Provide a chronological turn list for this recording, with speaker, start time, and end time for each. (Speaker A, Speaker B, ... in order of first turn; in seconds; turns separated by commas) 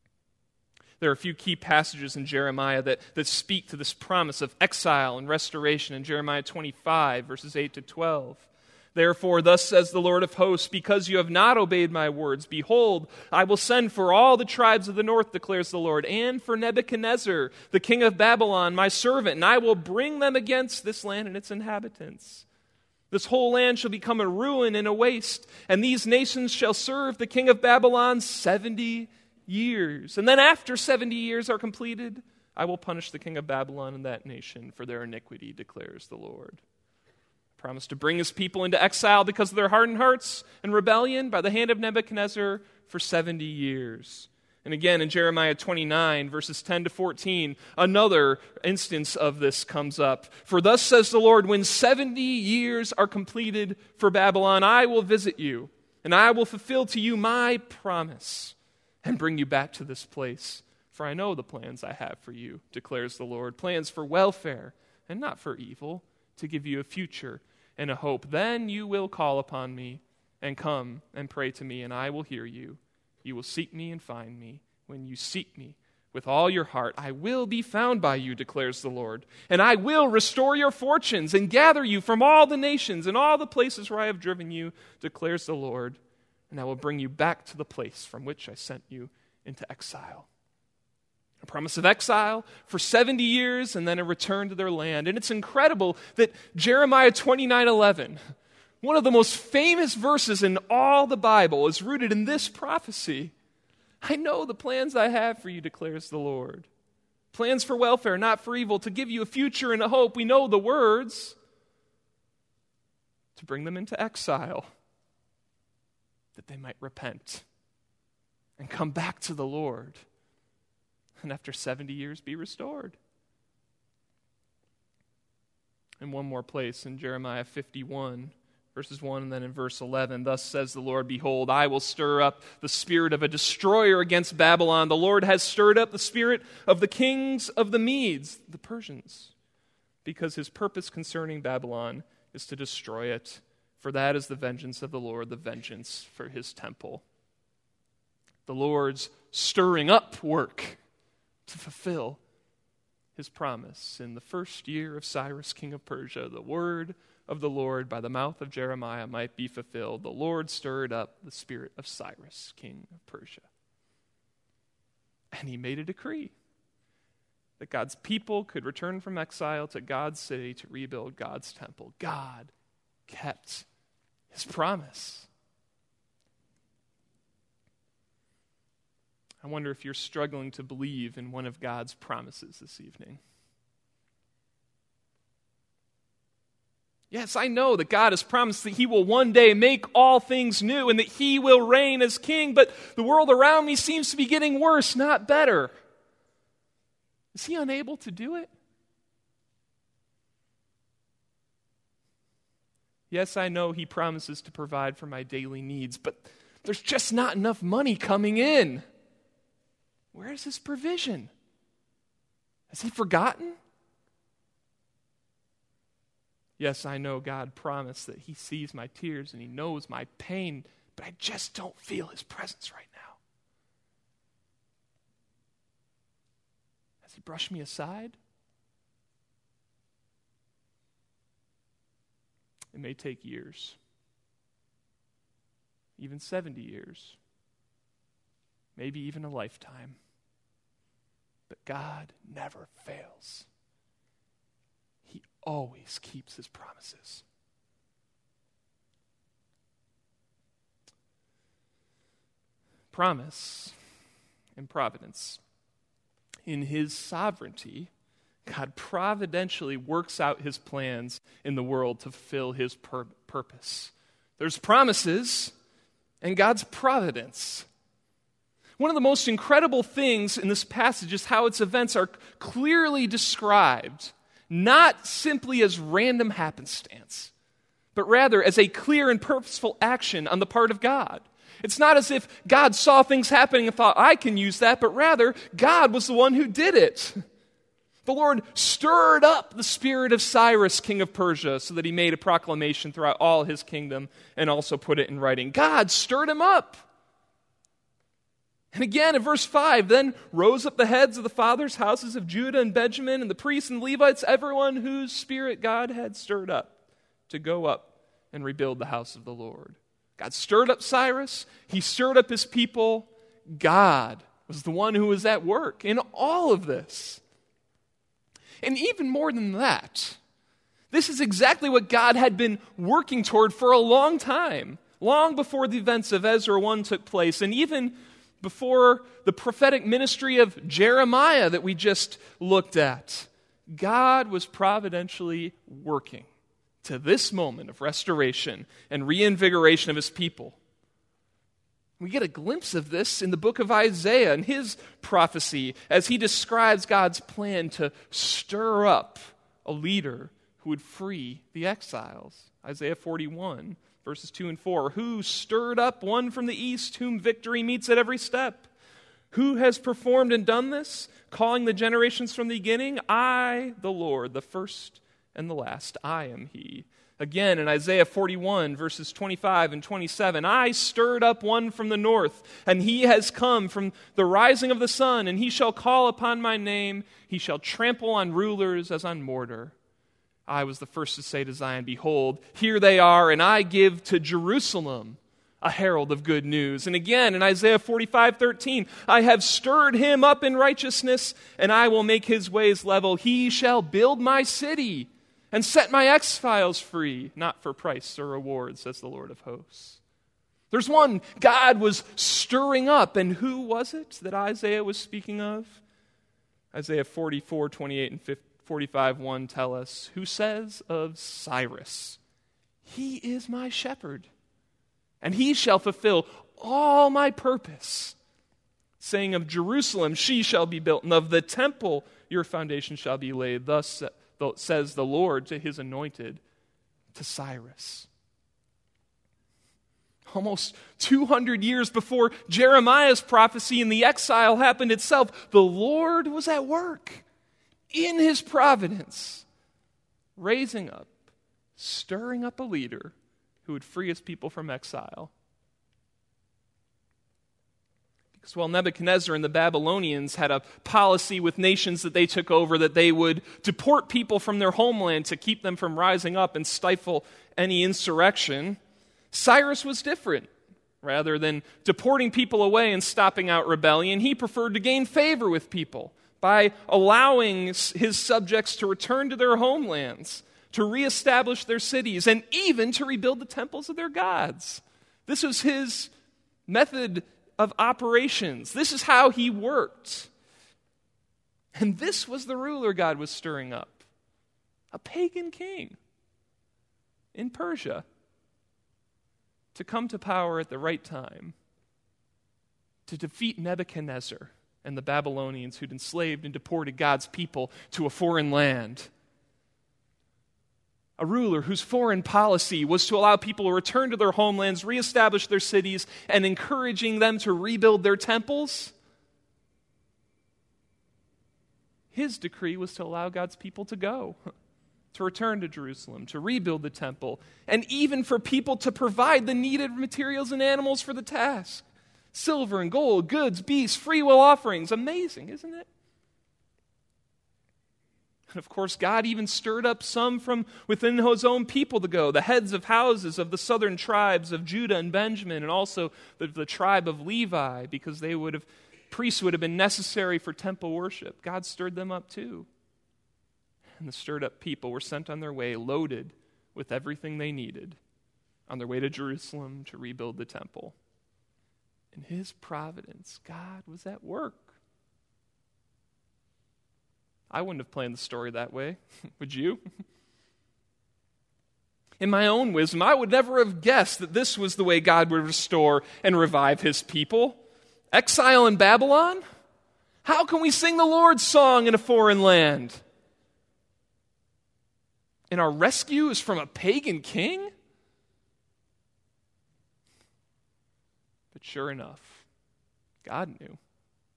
Speaker A: 1.0-22.4, Speaker A: 23.1-36.6, Speaker A: 37.6-86.0, Speaker A: 86.5-90.3, Speaker A: 91.4-98.2, Speaker A: 98.8-103.3, Speaker A: 104.0-106.7, Speaker A: 107.3-111.3, Speaker A: 113.3-114.7, Speaker A: 116.3-117.5, Speaker A: 118.6-120.0, Speaker A: 121.2-123.0, Speaker A: 126.0-139.3, Speaker A: 140.0-147.0, Speaker A: 148.4-150.8, Speaker A: 151.4-152.2, Speaker A: 153.1-163.5, Speaker A: 165.3-166.3, Speaker A: 167.6-172.5, Speaker A: 173.1-173.7, Speaker A: 174.3-175.3, Speaker A: 179.4-183.2, Speaker A: 187.1-195.7, Speaker A: 197.3-198.5, Speaker A: 203.1-208.8, Speaker A: 210.1-211.3, Speaker A: 212.7-213.6, Speaker A: 216.6-223.2, Speaker A: 227.0-228.2, Speaker A: 232.7-233.8, Speaker A: 236.0-237.2, Speaker A: 238.8-240.0, Speaker A: 241.5-243.5, Speaker A: 245.1-247.2, Speaker A: 252.9-253.7, Speaker A: 254.6-255.4, Speaker A: 256.4-257.9, Speaker A: 258.4-265.5, Speaker A: 266.2-267.7, Speaker A: 268.8-277.3, Speaker A: 277.9-287.2, Speaker A: 288.1-296.8, Speaker A: 298.7-306.8, Speaker A: 307.3-317.2, Speaker A: 318.6-320.2, Speaker A: 320.9-336.3, Speaker A: 336.8-340.6, Speaker A: 342.0-358.7, Speaker A: 359.3-379.7, Speaker A: 380.5-400.0, Speaker A: 400.7-405.8, Speaker A: 406.7-412.2, Speaker A: 412.8-414.3, Speaker A: 415.2-418.1, Speaker A: 419.0-426.4, Speaker A: 427.1-428.1, Speaker A: 430.3-437.2, Speaker A: 437.9-439.4, Speaker A: 440.4-441.1, Speaker A: 441.8-445.3, Speaker A: 448.3-458.8, Speaker A: 459.3-460.5, Speaker A: 461.0-476.1, Speaker A: 476.7-480.3, Speaker A: 481.7-484.1, Speaker A: 484.9-486.0, Speaker A: 487.3-488.0, Speaker A: 489.7-491.5, Speaker A: 493.1-499.1, Speaker A: 501.2-508.9, Speaker A: 512.1-514.4, Speaker A: 515.1-525.9, Speaker A: 528.5-542.7, Speaker A: 544.0-548.0, Speaker A: 548.7-551.0, Speaker A: 552.1-554.8, Speaker A: 557.5-559.8, Speaker A: 562.2-567.6, Speaker A: 568.1-569.4, Speaker A: 570.2-573.0, Speaker A: 575.5-577.7, Speaker A: 581.5-582.4, Speaker A: 583.2-583.8